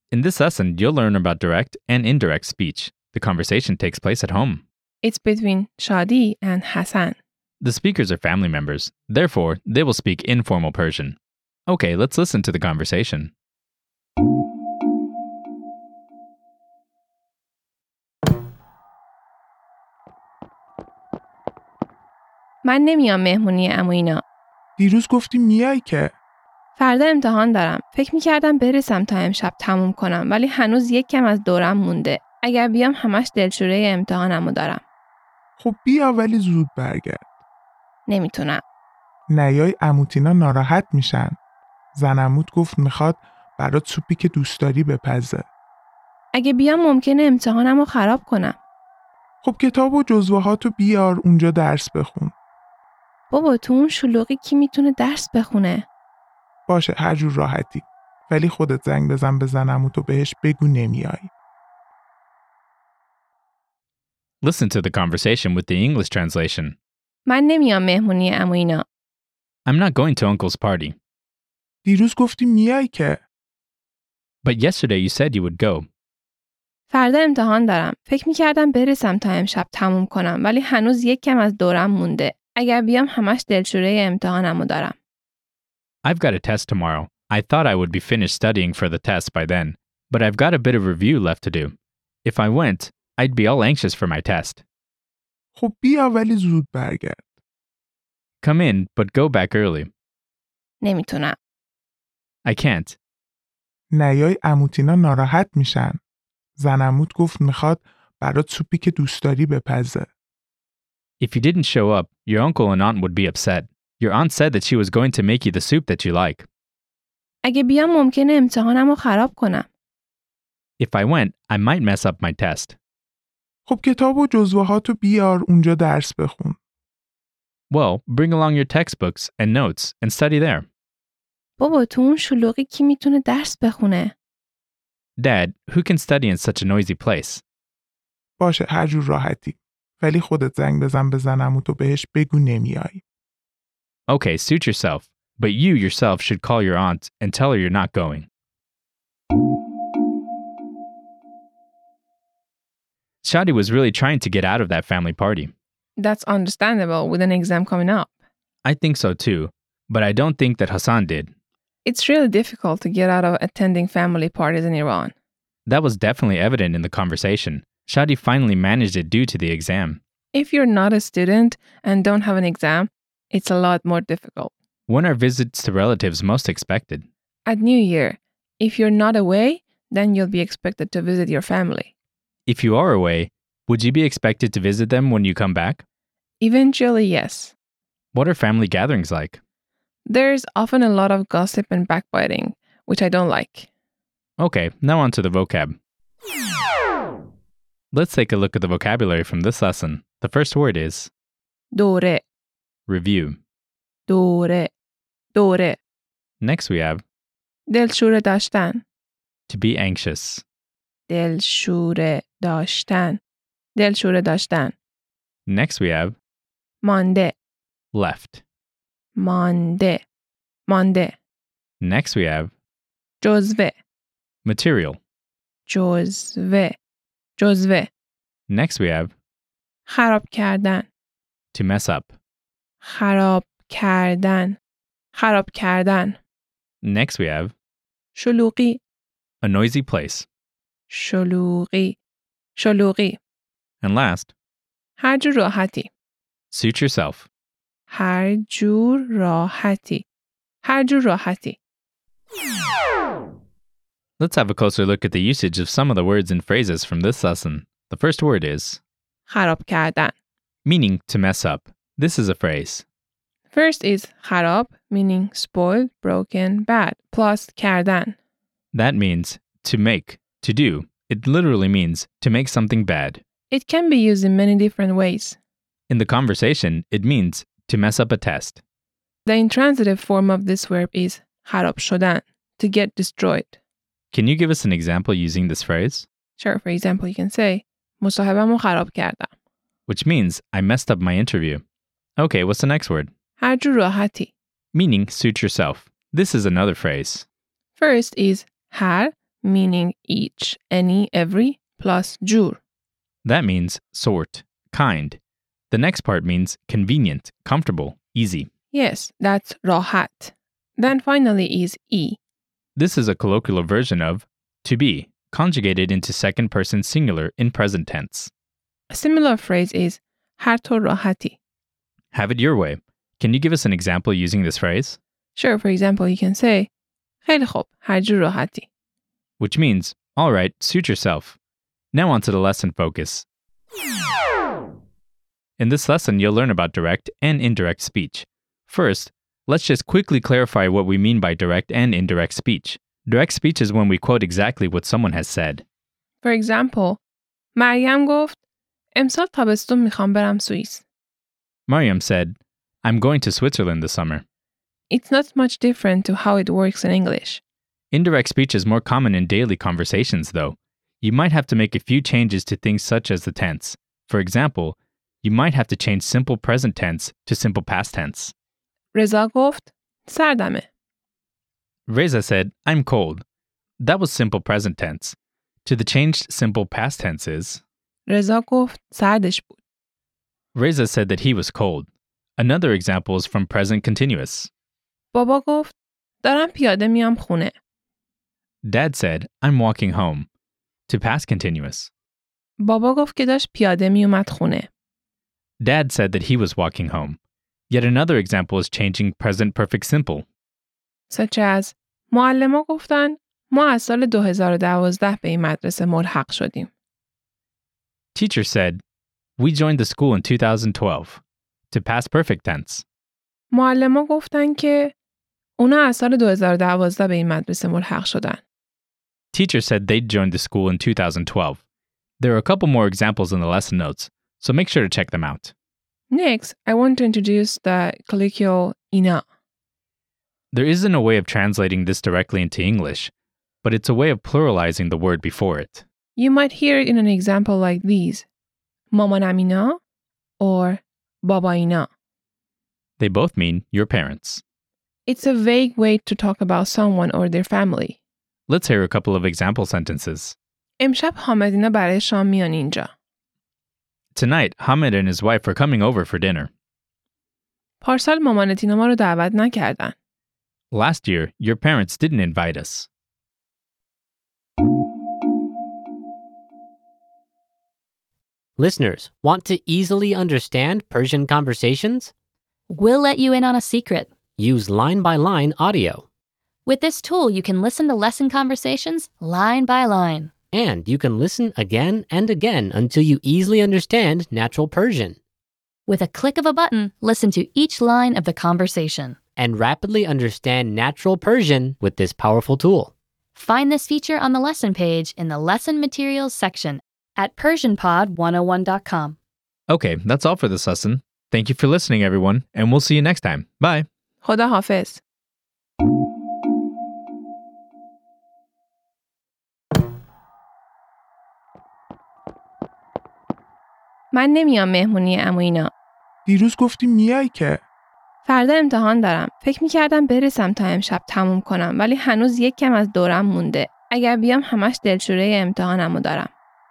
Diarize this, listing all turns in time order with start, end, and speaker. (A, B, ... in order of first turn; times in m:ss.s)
0:00.1-0:04.6 A
0:05.0-0:07.2 B
0:07.6-0:13.3 A
0:22.6-0:24.2 B
0:24.8-0:26.1 C
0:26.8-0:34.8 B
0:35.6-0:37.2 C
0:38.1-0:38.6 B
0:39.3-0:41.4 C
0:42.0-0:45.5 C
0:46.3-0:48.6 B
0:49.4-0:52.3 C
0:53.3-0:55.9 B
0:56.7-1:01.3 C
1:04.4-1:06.8 A
1:07.3-1:08.9 B
1:09.7-1:11.0 A
1:11.8-1:13.2 C
1:14.4-1:15.9 A
1:16.9-1:25.0 B
1:26.0-1:34.6 A
1:35.6-1:37.2 C
1:38.4-1:39.9 A
1:40.8-1:41.4 B
1:42.4-1:43.0 A
1:43.9-1:46.0 C
1:46.6-1:50.1 C
1:51.2-1:56.5 A
1:57.4-1:59.7 B
2:00.8-2:02.8 A
2:03.7-2:06.6 C
2:07.7-2:10.7 A
2:11.6-2:14.1 B
2:15.2-2:17.4 A
2:18.4-2:23.0 C
2:24.1-2:28.3 A
2:33.2-2:35.5 A
2:36.0-2:38.1 B
2:38.6-2:41.3 A
2:41.8-2:45.1 B
2:45.7-2:50.0 A
2:50.3-2:54.5 B
2:54.9-2:57.1 A
2:57.5-3:01.9 B
3:02.5-3:05.8 A
3:06.4-3:07.5 B
3:08.1-3:09.4 A
3:10.1-3:13.7 B
3:14.4-3:15.8 A
3:17.9-3:21.1 A
3:21.7-3:22.2 B
3:22.9-3:23.4 A
3:24.1-3:24.7 B
3:25.3-3:25.8 B
3:26.4-3:27.0 A
3:27.7-3:28.8 B
3:29.5-3:30.4 A
3:31.1-3:33.2 B
3:33.8-3:34.7 B
3:35.5-3:36.2 A
3:36.8-3:37.4 B
3:37.9-3:38.4 A
3:39.2-3:40.0 B
3:40.7-3:41.2 B
3:41.8-3:42.5 A
3:43.2-3:43.7 B
3:44.4-3:45.0 A
3:45.7-3:46.8 B
3:47.4-3:47.9 B
3:48.5-3:49.1 A
3:49.9-3:50.9 B
3:51.5-3:52.1 A
3:52.8-3:54.6 B
3:55.1-3:56.2 B
3:56.8-3:57.5 A
3:58.2-3:58.8 B
3:59.4-4:00.3 A
4:00.9-4:02.0 B
4:02.6-4:03.2 B
4:03.8-4:04.3 A
4:05.0-4:05.9 B
4:06.5-4:07.3 A
4:07.9-4:10.0 B
4:10.6-4:11.6 B
4:14.2-4:18.8 A
4:19.3-4:20.1 B
4:20.6-4:22.8 A
4:23.5-4:28.2 B
4:28.7-4:33.2 A
4:33.5-4:35.4 B
4:35.9-4:38.6 A
4:39.3-4:43.6 B
4:44.1-4:46.1 A
4:46.4-4:49.3 B
4:49.9-4:51.6 A
4:52.2-4:53.1 A
4:53.4-4:54.3 B
4:54.7-4:57.3 A
4:57.8-5:02.6 B
5:03.2-5:05.2 A
5:05.7-5:08.5 A
5:08.7-5:12.2 B
5:12.8-5:18.3 A
5:18.9-5:21.4 B
5:22.1-5:25.0 A
5:25.4-5:26.7 B
5:27.2-5:28.7 B
5:29.4-5:31.4 A
5:31.9-5:33.3 A
5:35.6-5:45.6 A
5:46.2-5:47.0 B
5:47.6-5:48.4 B
5:49.0-5:50.8 B
5:51.7-5:54.2 A
5:54.9-5:57.4 B
5:57.9-6:08.3 A
6:08.9-6:10.7 B
6:11.9-6:13.2 A
6:13.8-6:17.6 A
6:18.1-6:19.5 B
6:20.6-6:24.5 A
6:25.1-6:27.5 B
6:28.6-6:30.3 A
6:30.9-6:31.9 A
6:32.6-6:34.7 B
6:35.6-6:37.2 A
6:37.7-6:40.3 A
6:41.1-6:46.7 B
6:48.2-6:48.8 A
6:49.4-6:52.8 A
6:53.5-6:54.9 B
6:55.6-6:58.4 B
6:59.3-7:01.6 A
7:02.2-7:05.5 A
7:06.1-7:09.2 B
7:10.5-7:13.1 A
7:13.6-7:15.8 A
7:16.2-7:18.2 B
7:18.9-7:19.8 B
7:20.4-7:21.9 B
7:23.0-7:24.4 A
7:25.1-7:28.0 B
7:28.5-7:30.4 A
7:30.8-7:32.9 B
7:34.2-7:36.5 A
7:37.8-7:40.0 B
7:40.7-7:42.9 A
7:48.6-7:52.1 D
7:52.7-7:54.1 E
7:54.4-7:56.1 D
7:56.7-8:00.3 E
8:00.5-8:05.2 D
8:05.9-8:09.2 E
8:09.4-8:12.9 D
8:13.4-8:19.2 E
8:19.7-8:23.9 A
8:24.2-8:25.0 B
8:34.1-8:35.7 B
8:36.3-8:37.6 C
8:38.2-8:46.3 B